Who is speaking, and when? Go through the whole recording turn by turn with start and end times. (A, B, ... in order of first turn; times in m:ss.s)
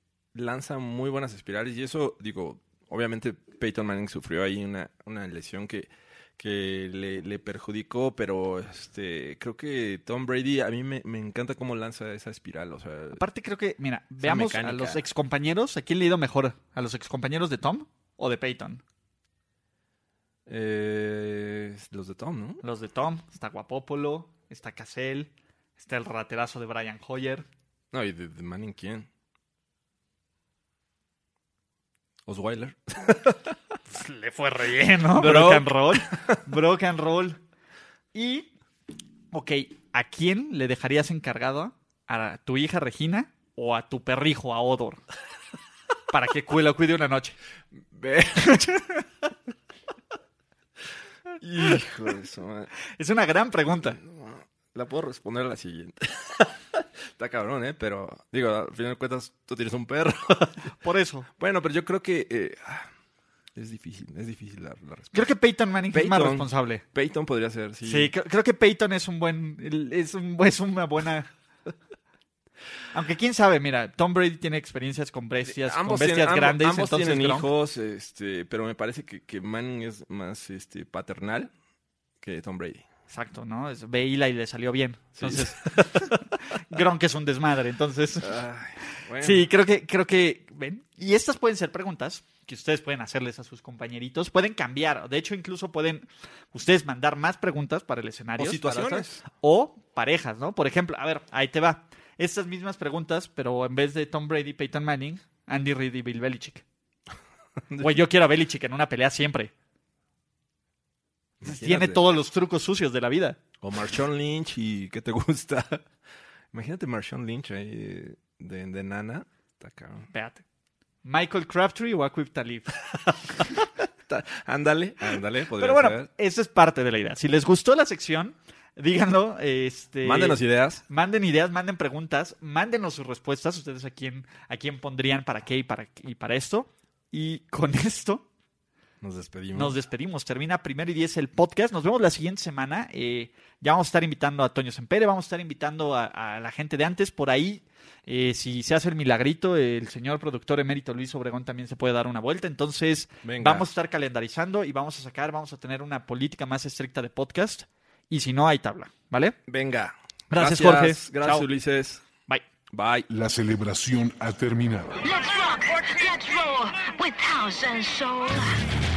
0:00.3-0:13.2 A
0:13.1-0:18.8 B
0:14.2-0:15.0 A
0:20.5-0:22.6 A
0:22.6-0:27.4 B
0:27.9-0:29.1 A
0:32.2-0:33.5 A
0:33.9-0:37.4 B
0:35.1-0:36.4 A
0:38.1-0:38.5 B
0:39.3-0:45.0 B
0:46.1-0:47.4 B
0:47.8-0:48.6 A
0:48.4-0:49.0 B
0:51.4-0:52.7 A
0:52.9-0:54.0 B
0:53.8-1:00.7 A
1:00.8-1:01.3 B
1:01.4-1:02.9 A
1:03.5-1:05.3 A
1:05.1-1:06.8 B
1:05.9-1:08.1 A
1:07.8-1:11.3 B
1:12.9-1:17.5 B
1:15.4-1:21.5 A
1:22.2-1:22.8 A
1:23.1-1:28.4 B
1:25.2-1:26.2 A
1:28.2-1:29.5 A
1:29.2-1:46.6 B
1:38.4-1:39.2 A
1:47.8-1:49.5 B
1:51.4-1:52.0 A
1:51.4-1:53.4 B
1:53.6-1:55.9 A
1:56.5-2:00.1 A
2:00.1-2:00.4 B
2:01.0-2:02.8 B
2:04.1-2:06.1 A
2:05.6-2:18.2 B
2:10.0-2:10.8 A
2:19.0-2:19.8 A
2:19.5-2:39.4 B
2:33.2-2:33.7 A
2:39.5-2:42.0 A
2:40.3-2:41.5 B
2:42.7-2:43.1 A
2:43.1-2:45.0 C
2:45.0-2:48.6 D